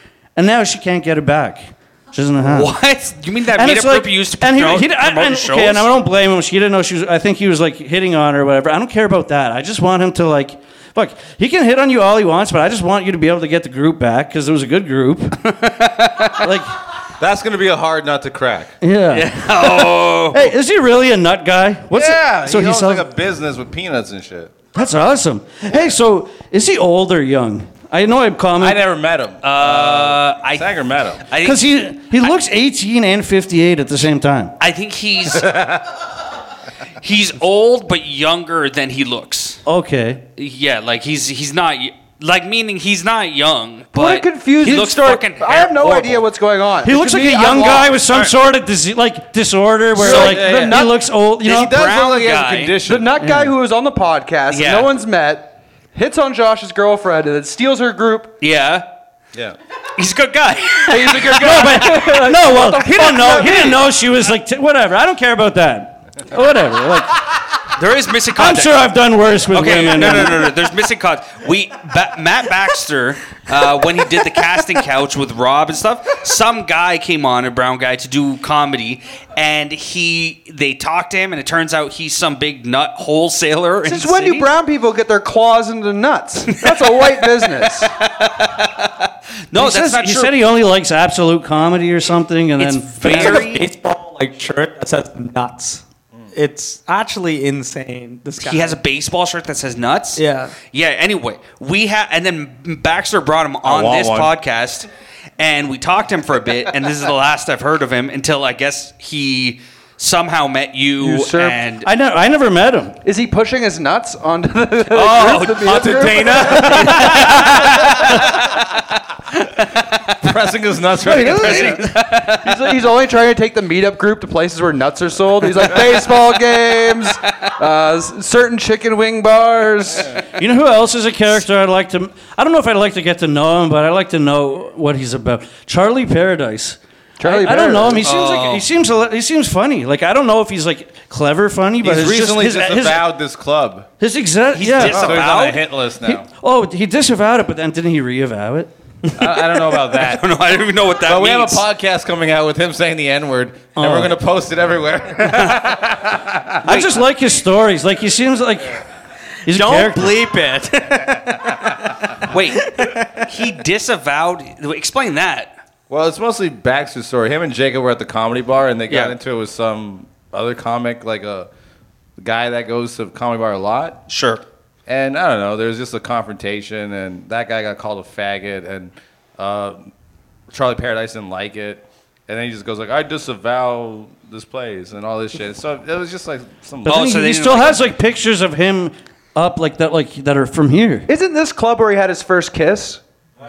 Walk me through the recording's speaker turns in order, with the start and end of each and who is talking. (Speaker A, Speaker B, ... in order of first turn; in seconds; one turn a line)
Speaker A: 0.3-2.7
Speaker B: 2.4-5.9
Speaker A: 3.5-15.4
Speaker B: 15.4-16.5
Speaker A: 16.4-16.7
Speaker C: 17.2-18.8
Speaker A: 18.8-23.1
Speaker B: 19.1-20.5
Speaker C: 21.9-24.7
Speaker A: 24.7-28.8
Speaker C: 28.6-31.3
Speaker B: 29.4-30.7
Speaker B: 31.2-31.7
Speaker A: 31.4-34.5
Speaker B: 34.6-35.6
Speaker C: 35.3-35.8
Speaker B: 37.0-39.6
Speaker A: 39.6-40.2
Speaker B: 40.4-46.2
Speaker D: 43.9-47.9
Speaker A: 46.8-51.8
Speaker B: 47.6-48.3
Speaker D: 50.0-50.9
Speaker C: 50.0-50.9
Speaker B: 50.0-50.4
Speaker C: 51.4-53.1
Speaker B: 51.4-52.8
Speaker D: 52.8-58.4
Speaker A: 53.2-53.5
Speaker B: 54.5-54.9
Speaker B: 58.4-58.9
Speaker B: 60.0-61.5
Speaker D: 60.9-63.8
Speaker A: 61.3-67.2
Speaker B: 67.7-68.9
Speaker A: 68.3-70.5
Speaker B: 69.5-84.5
Speaker D: 83.8-87.9
Speaker B: 86.5-90.3
Speaker A: 89.5-93.5
Speaker B: 92.6-93.7
Speaker E: 93.0-95.8
Speaker E: 96.3-98.8
Speaker B: 98.4-111.9
Speaker E: 100.2-100.5
Speaker C: 103.6-104.3
Speaker D: 111.0-111.6
Speaker A: 111.8-113.0
Speaker D: 113.0-117.7
Speaker B: 114.9-118.2
Speaker C: 115.6-118.0
Speaker C: 120.2-121.9
Speaker D: 121.0-130.2
Speaker B: 121.1-122.7
Speaker B: 125.5-126.3
Speaker B: 127.0-127.5
Speaker A: 130.3-143.1
Speaker D: 137.2-138.1
Speaker B: 138.0-138.7
Speaker C: 141.8-143.9
Speaker A: 144.0-145.2
Speaker B: 144.5-145.6
Speaker C: 144.8-146.3
Speaker D: 144.9-145.2
Speaker A: 146.1-148.7
Speaker C: 149.2-150.2
Speaker B: 149.2-151.6
Speaker C: 151.1-156.6
Speaker A: 153.7-154.2
Speaker A: 156.6-158.8
Speaker B: 156.6-157.0
Speaker A: 159.4-160.2
Speaker E: 159.5-161.9
Speaker B: 162.2-165.5
Speaker E: 162.6-163.2
Speaker C: 165.9-171.5
Speaker B: 168.9-169.2
Speaker C: 172.2-174.0
Speaker B: 174.1-174.4
Speaker C: 174.9-179.9
Speaker C: 180.5-187.0
Speaker B: 186.8-187.9
Speaker A: 186.8-191.1
Speaker D: 191.1-193.0